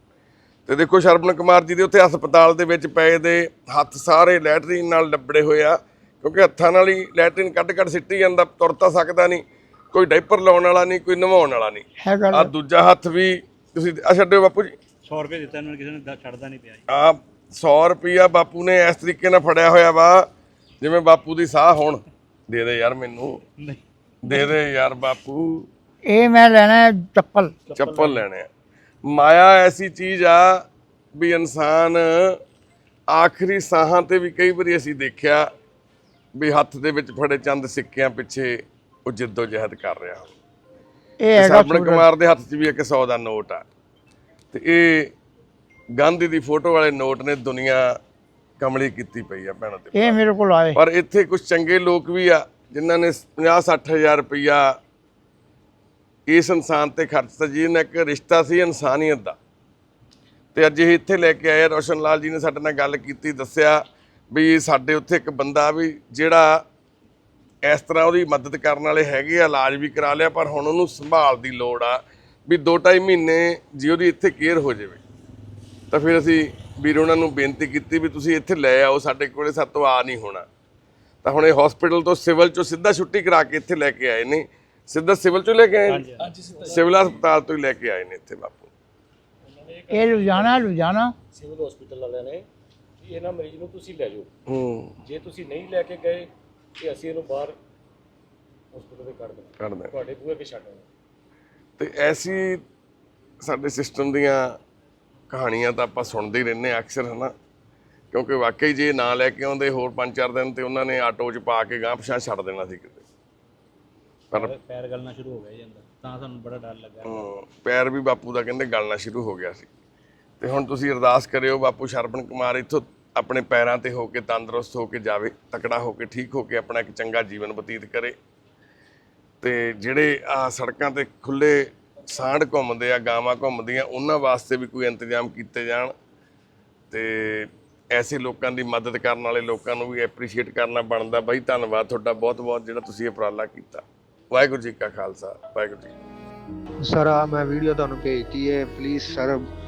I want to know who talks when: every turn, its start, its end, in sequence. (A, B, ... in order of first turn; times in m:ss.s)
0:00.7-0:14.8 A
0:12.0-0:12.5 B
0:15.0-0:16.8 C
0:16.9-0:20.3 A
0:20.8-0:23.4 A
0:24.2-0:25.7 A
0:26.1-0:27.6 B
0:27.7-0:28.5 A
0:29.1-0:30.6 A
0:31.2-0:32.4 A
0:33.1-0:35.5 A
0:36.4-0:40.3 A
0:41.2-0:42.0 B
0:41.4-0:43.7 A
0:44.5-0:45.1 A
0:46.0-0:47.9 A
0:48.6-0:50.2 A
0:50.0-0:50.8 B
0:50.8-0:54.7 A
0:56.3-0:59.4 A
1:00.5-1:06.6 A
1:07.6-1:15.0 A
1:15.9-1:20.5 A
1:21.2-1:26.1 A
1:26.0-1:26.2 C
1:26.2-1:26.9 D
1:26.6-1:28.7 A
1:29.4-1:30.7 D
1:29.9-1:31.2 B
1:31.3-1:32.5 D
1:33.0-1:34.3 D
1:34.5-1:35.0 A
1:35.0-1:37.6 D
1:38.7-1:40.9 D
1:39.6-1:39.9 A
1:41.8-1:42.6 A
1:43.4-1:44.6 A
1:45.3-1:47.3 A
1:48.1-1:53.1 A
1:54.3-1:57.2 C
1:57.0-1:59.7 A
2:00.4-2:08.2 A
2:09.4-2:15.9 A
2:16.9-2:25.9 A
2:26.9-2:29.4 E